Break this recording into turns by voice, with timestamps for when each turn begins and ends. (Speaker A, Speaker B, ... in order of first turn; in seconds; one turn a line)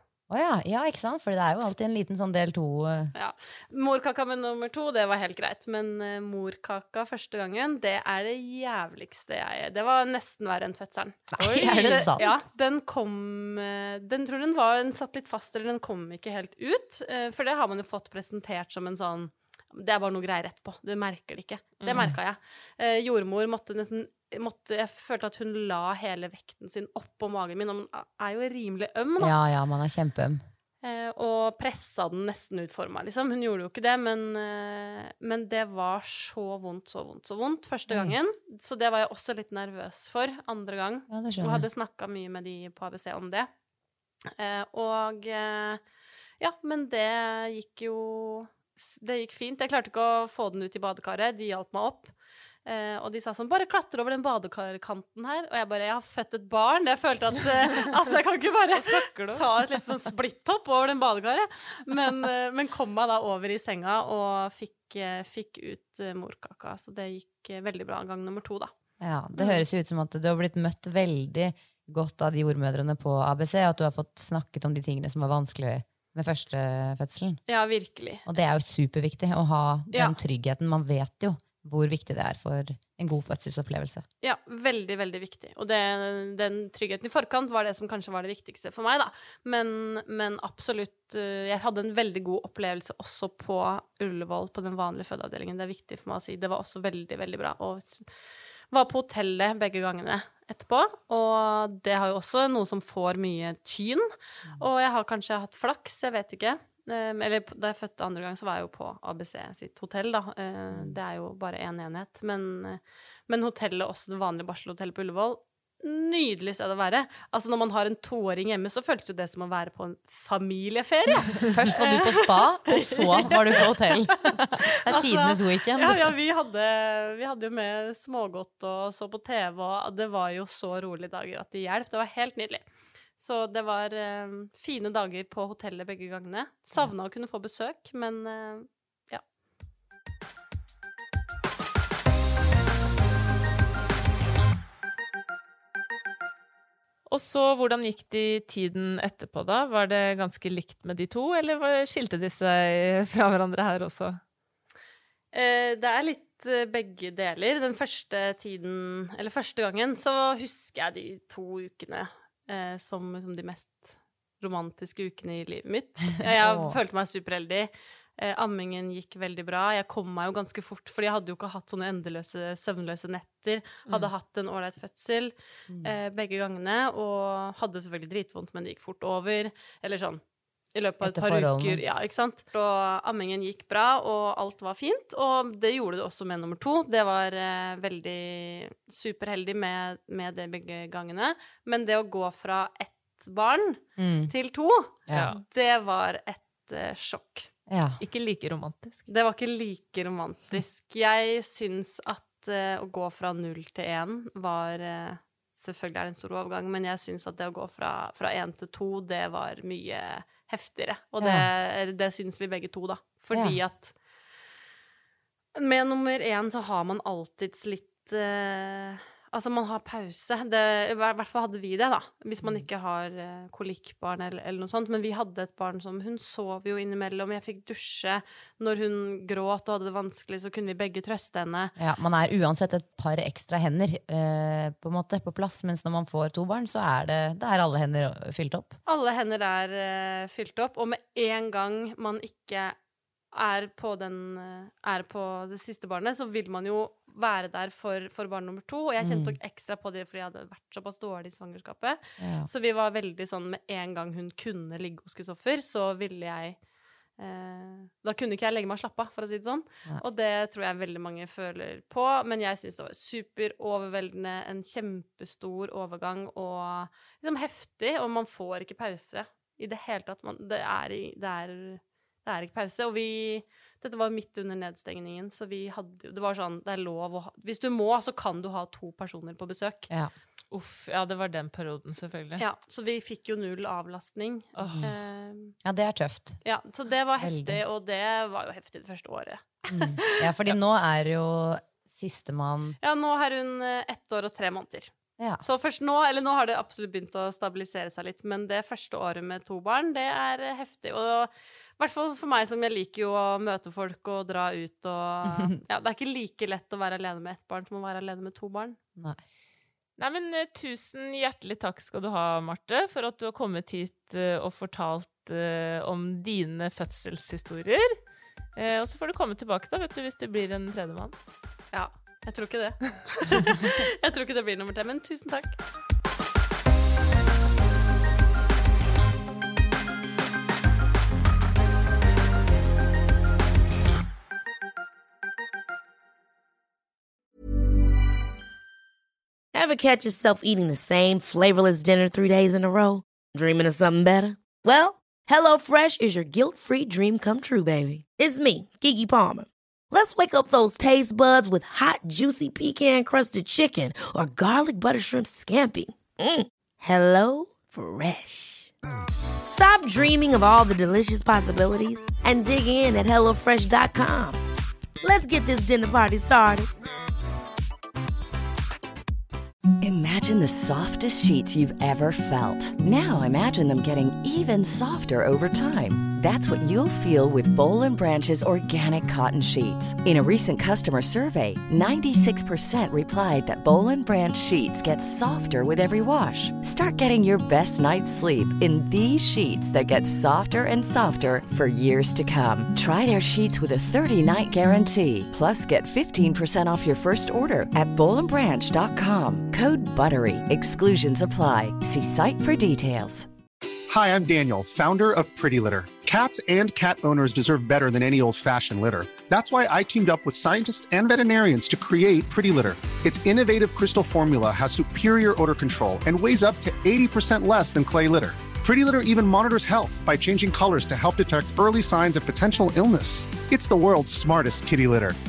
Speaker A: 0.3-3.1
Speaker B: 3.1-29.4
Speaker A: 11.3-12.3
Speaker C: 11.4-12.4
Speaker C: 21.8-22.1
Speaker A: 29.2-30.4
Speaker B: 30.8-43.5
Speaker A: 37.9-38.2
Speaker A: 41.1-41.7
Speaker B: 44.3-45.8
Speaker B: 46.4-52.1
Speaker B: 52.6-68.7
Speaker C: 58.8-59.5
Speaker A: 69.0-77.4
Speaker B: 69.4-69.6
Speaker B: 77.5-78.3
Speaker A: 78.2-84.0
Speaker B: 79.9-80.2
Speaker B: 84.2-98.1
Speaker B: 98.7-132.7
Speaker A: 110.7-111.0
Speaker A: 121.5-126.1
Speaker B: 133.2-139.2
Speaker C: 147.1-154.2
Speaker B: 155.3-180.2
Speaker A: 166.3-166.8
Speaker A: 175.7-175.9
Speaker B: 180.7-197.5
Speaker A: 181.0-181.8
Speaker A: 194.0-194.3
Speaker A: 195.1-195.3
Speaker C: 195.1-195.4
Speaker A: 197.7-198.0
Speaker C: 198.0-199.0
Speaker B: 199.1-213.9
Speaker A: 211.2-211.5
Speaker A: 213.3-213.6
Speaker B: 215.6-231.7
Speaker A: 231.8-238.8
Speaker B: 238.9-242.8
Speaker B: 243.3-256.6
Speaker A: 249.0-249.4
Speaker A: 252.2-252.5
Speaker B: 257.2-279.9
Speaker C: 280.5-282.4
Speaker B: 282.4-285.5
Speaker C: 284.6-284.9
Speaker A: 285.6-286.4
Speaker B: 286.4-290.5
Speaker A: 287.2-287.6
Speaker A: 289.7-292.8
Speaker B: 292.8-308.8
Speaker A: 305.3-305.6
Speaker C: 310.0-318.0
Speaker C: 318.6-321.1
Speaker B: 321.7-325.6
Speaker D: 339.5-358.7
Speaker D: 359.5-364.4
Speaker D: 365.0-366.7
Speaker E: 369.8-403.3
Speaker F: 403.9-425.2